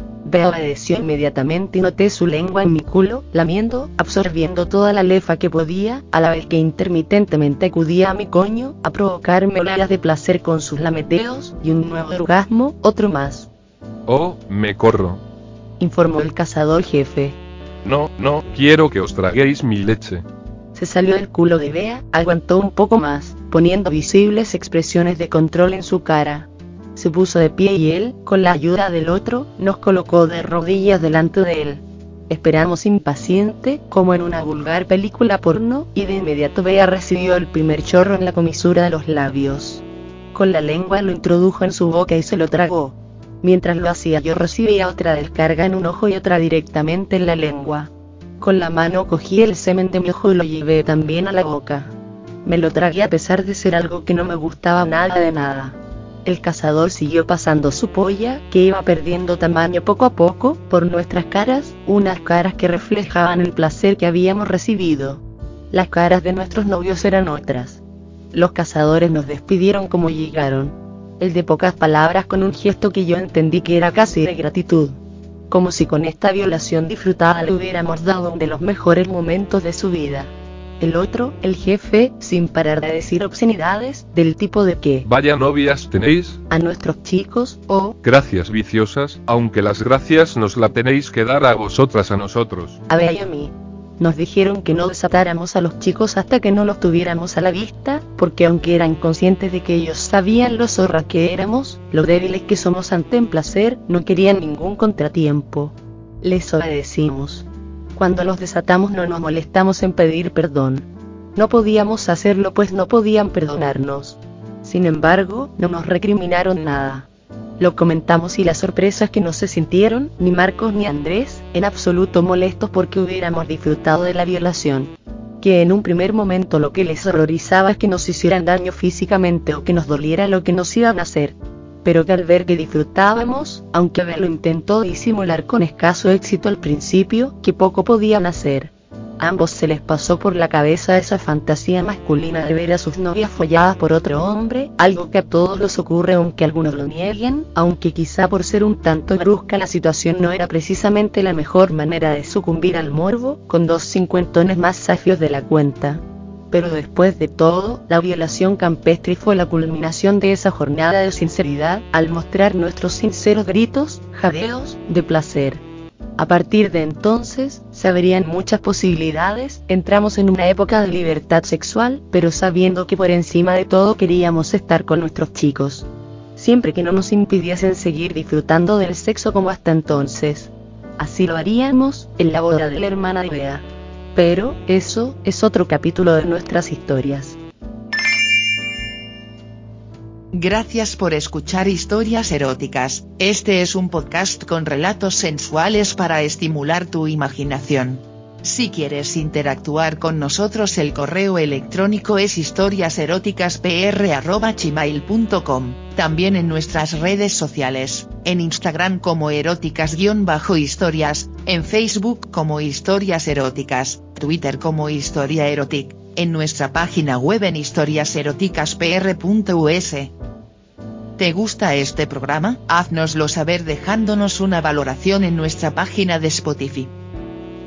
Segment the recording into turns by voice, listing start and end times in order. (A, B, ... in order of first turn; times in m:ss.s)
0:00.2-0:13.5 A
0:14.1-0:15.2 B
0:15.8-0:17.4 A
0:17.8-0:20.2 B
0:20.8-0:39.8 A
0:40.3-0:51.9 A
0:52.4-1:07.8 A
1:08.3-1:15.0 A
1:15.5-1:25.1 A
1:25.0-1:26.4 B
1:26.5-1:28.0 A
1:28.0-1:32.8 B
1:32.9-1:57.1 A
1:57.6-2:45.6 A
2:46.2-3:07.4 A
3:10.3-3:40.1 C
3:41.2-3:46.9 C